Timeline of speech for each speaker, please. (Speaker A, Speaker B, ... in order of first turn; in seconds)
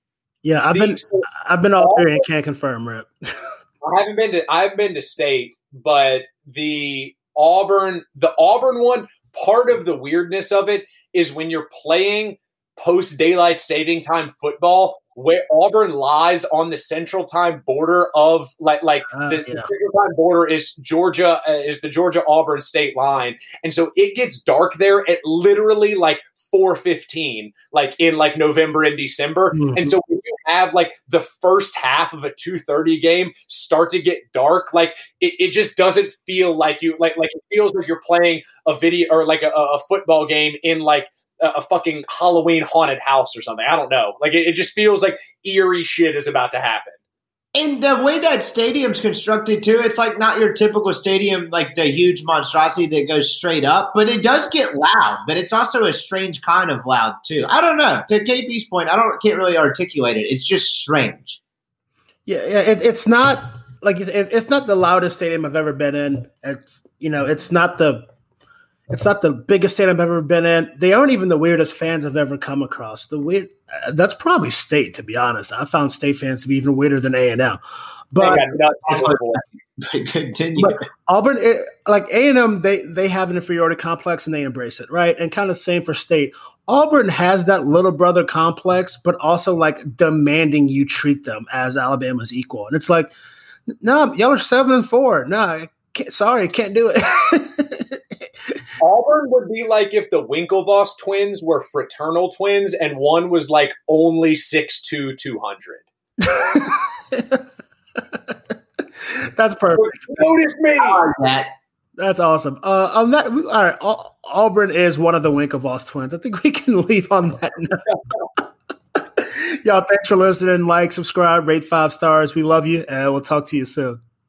Speaker A: 0.4-3.1, 19.1-19.7, 29.5-29.9, 62.2-68.1, 68.9-77.6, 78.1-78.4, 80.6-93.1, 93.7-98.0, 106.2-107.4, 109.0-110.2, 112.0-117.9, 119.0-124.0
Speaker B: 0.7-1.3, 1.8-2.2, 3.8-47.0, 78.2-79.4, 98.8-105.9, 109.7-111.0
Speaker C: 47.5-61.4, 78.9-80.8, 110.8-111.5